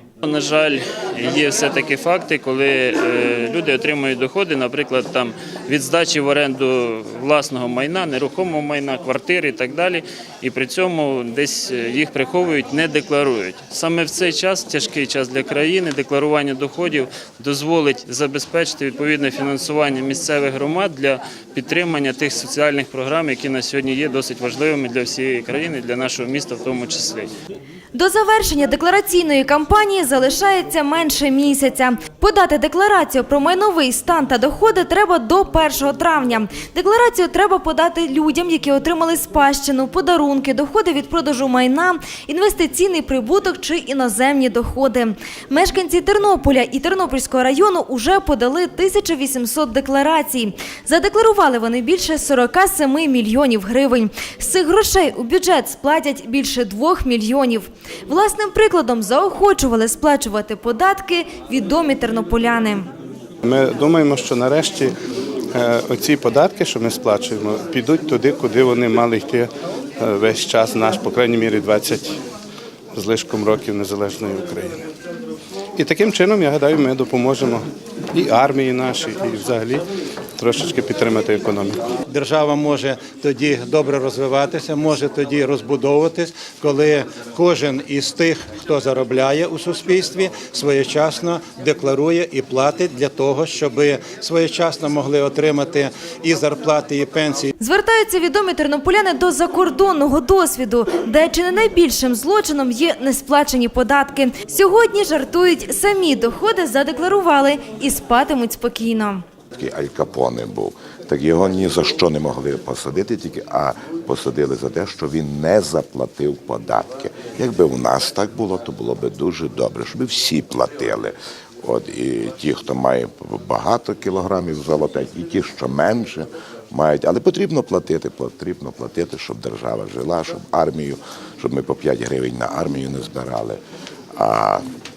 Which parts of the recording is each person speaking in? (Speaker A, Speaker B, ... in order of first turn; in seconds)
Speaker A: 0.2-27.3
Speaker B: 27.9-62.9, 97.6-109.2
Speaker C: 63.4-64.9, 65.5-72.2, 72.9-74.9, 75.8-79.8, 80.4-81.9
Speaker D: 82.1-97.5
Speaker E: 109.6-133.6, 134.1-134.6